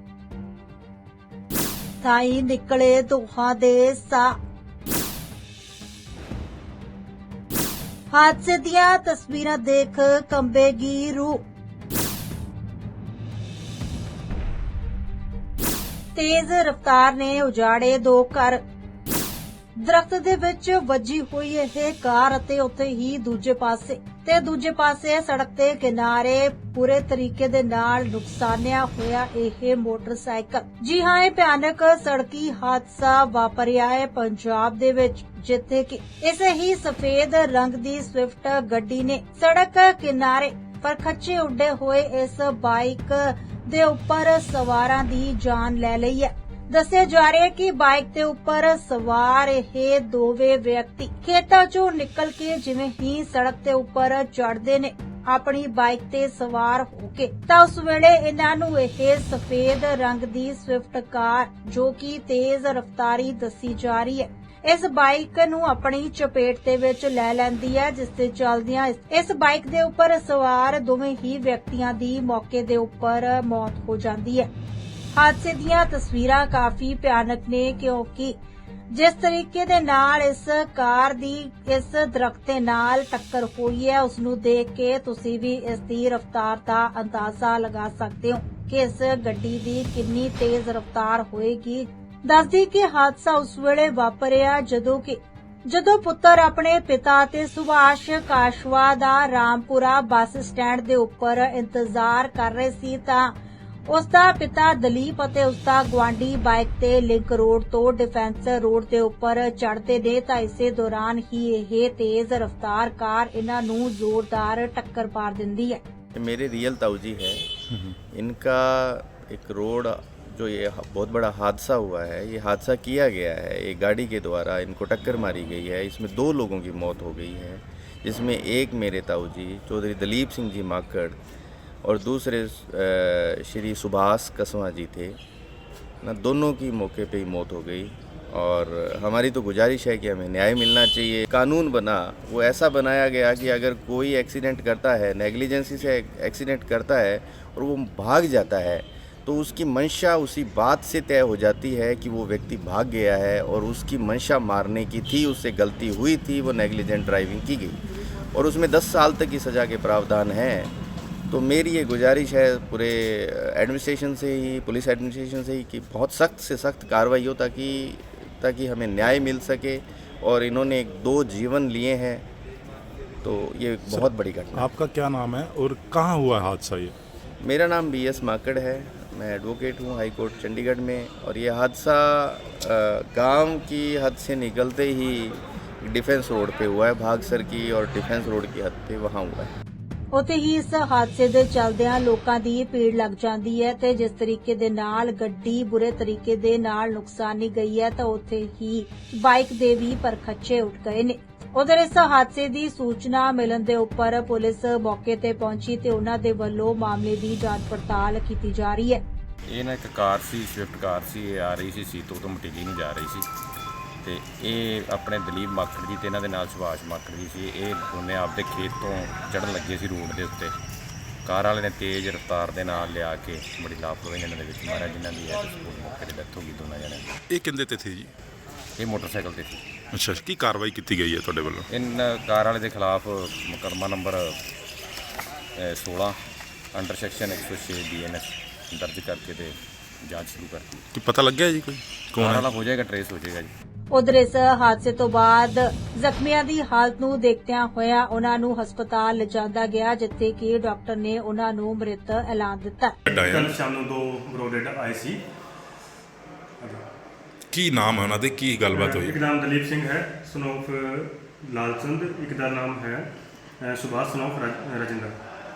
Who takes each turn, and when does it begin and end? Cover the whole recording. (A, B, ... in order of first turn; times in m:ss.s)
0:02.0-0:04.3 A
0:08.1-0:11.4 A
0:16.1-0:18.6 A
0:19.8-1:14.5 A
1:15.1-1:18.4 A
1:18.9-1:43.3 A
1:43.9-1:55.8 A
1:56.1-1:57.5 B
1:58.1-2:11.2 B
2:11.8-2:15.2 B
2:16.0-2:37.8 B
2:38.3-2:40.7 B
2:41.3-2:52.2 B
2:53.2-2:54.7 B
2:53.9-2:56.9 C
2:57.4-3:09.5 B
3:10.1-3:29.0 A
3:29.4-3:33.3 D
3:34.0-3:40.5 D
3:41.2-3:47.1 D
3:47.3-3:48.1 C
3:48.8-3:49.6 D
3:49.9-3:51.7 C
3:51.7-3:54.4 D
3:55.6-3:56.2 D
3:56.7-4:00.9 D
4:00.9-4:02.5 C
4:02.2-4:03.5 D
4:03.9-4:13.0 A
4:13.1-4:15.2 E
4:13.1-4:13.5 C
4:16.6-4:16.9 E
4:17.5-4:19.2 C
4:18.7-4:23.1 E
4:23.6-4:25.2 E